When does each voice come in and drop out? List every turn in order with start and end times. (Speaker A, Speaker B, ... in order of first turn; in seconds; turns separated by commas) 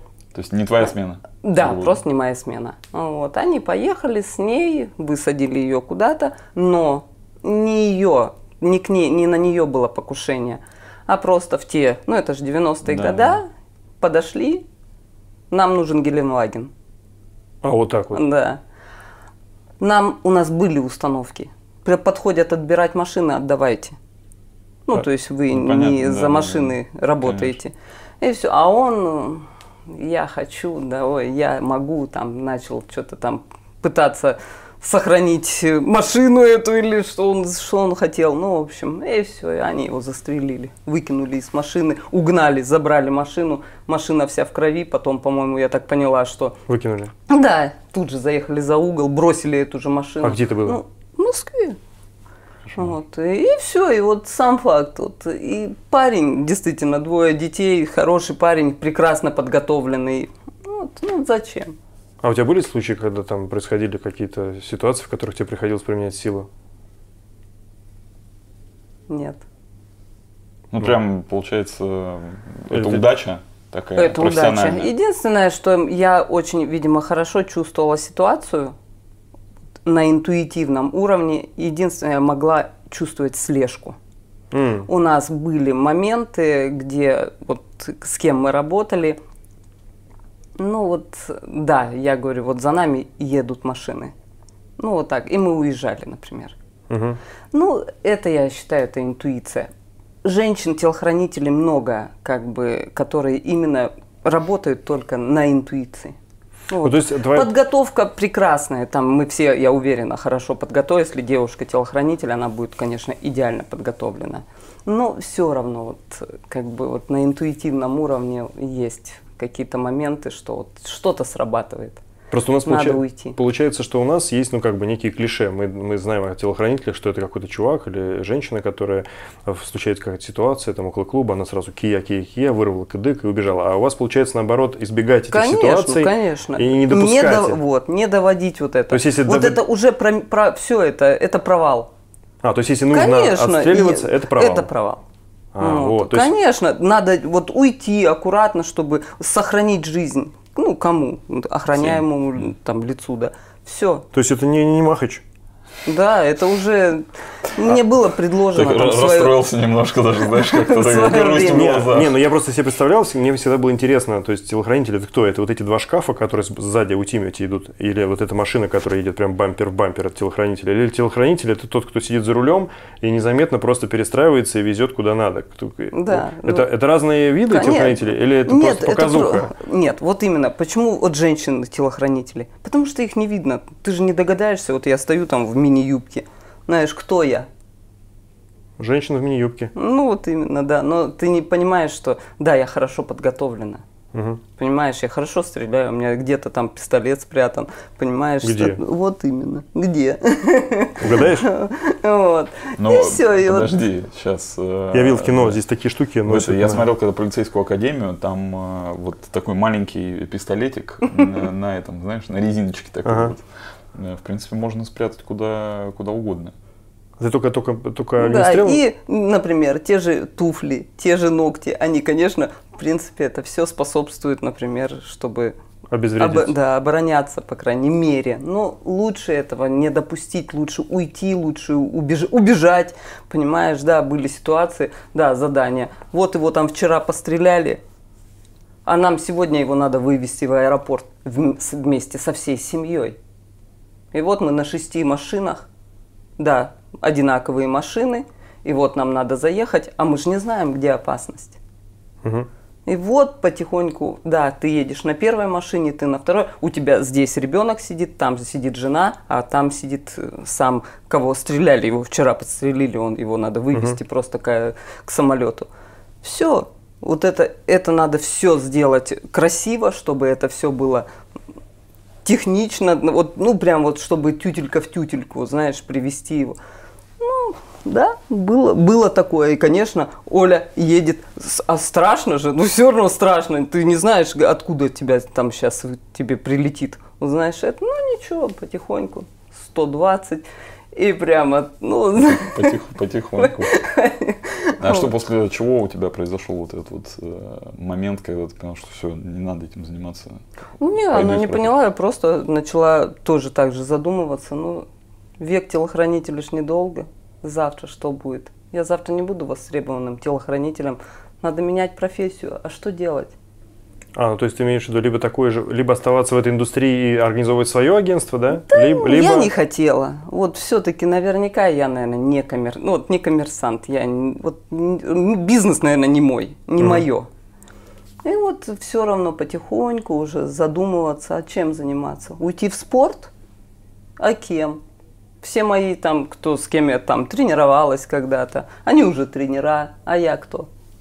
Speaker A: 0.3-2.0, Speaker B: 1.4-13.4, Speaker A: 12.8-13.4, Speaker B: 14.0-14.6, Speaker B: 15.5-16.7, Speaker C: 17.6-18.2, Speaker B: 18.1-18.6, Speaker B: 19.8-23.9, Speaker B: 24.9-46.6, Speaker A: 25.5-27.6, Speaker C: 46.7-47.1, Speaker B: 47.3-51.8, Speaker C: 50.2-50.8, Speaker B: 52.8-61.8, Speaker C: 62.2-66.5, Speaker B: 69.1-69.4, Speaker A: 70.7-74.9, Speaker C: 72.7-73.0, Speaker B: 74.0-78.7, Speaker B: 79.8-84.0, Speaker C: 84.5-84.9, Speaker B: 84.9-89.2, Speaker B: 90.6-94.1, Speaker B: 94.8-96.5, Speaker C: 96.9-97.2, Speaker B: 97.5-99.7, Speaker B: 100.2-106.2, Speaker B: 106.7-122.0, Speaker C: 106.8-107.5, Speaker C: 122.3-137.6, Speaker B: 122.6-123.3, Speaker B: 135.3-141.9, Speaker C: 138.9-139.6, Speaker C: 142.4-144.7, Speaker B: 142.9-145.0, Speaker C: 145.5-146.3, Speaker B: 145.6-154.1, Speaker A: 151.8-152.0, Speaker C: 154.1-155.2, Speaker B: 155.8-159.4, Speaker A: 158.5-162.1, Speaker B: 160.3-161.9, Speaker C: 161.4-179.5, Speaker B: 175.9-176.7, Speaker B: 177.5-187.5, Speaker C: 188.8-189.7, Speaker B: 189.7-193.8, Speaker C: 194.1-194.4, Speaker B: 194.6-203.7, Speaker C: 198.4-198.8, Speaker C: 201.0-201.5, Speaker A: 202.8-205.6, Speaker C: 204.9-206.8, Speaker A: 206.2-216.5, Speaker C: 213.0-213.3, Speaker C: 217.2-218.8, Speaker B: 218.2-225.5, Speaker C: 225.9-226.5, Speaker B: 226.2-237.8, Speaker B: 238.8-243.2, Speaker B: 244.1-245.7, Speaker B: 246.4-251.6, Speaker B: 252.8-265.7, Speaker B: 266.2-271.1, Speaker B: 272.2-276.6, Speaker B: 277.2-292.7, Speaker A: 292.1-293.8, Speaker B: 293.4-295.1, Speaker A: 294.8-300.4, Speaker B: 300.8-304.9, Speaker A: 301.0-301.7, Speaker B: 305.4-313.3, Speaker C: 314.1-319.5, Speaker B: 318.7-327.3, Speaker C: 326.8-327.0, Speaker B: 328.2-333.3, Speaker B: 334.2-334.8, Speaker B: 335.4-340.7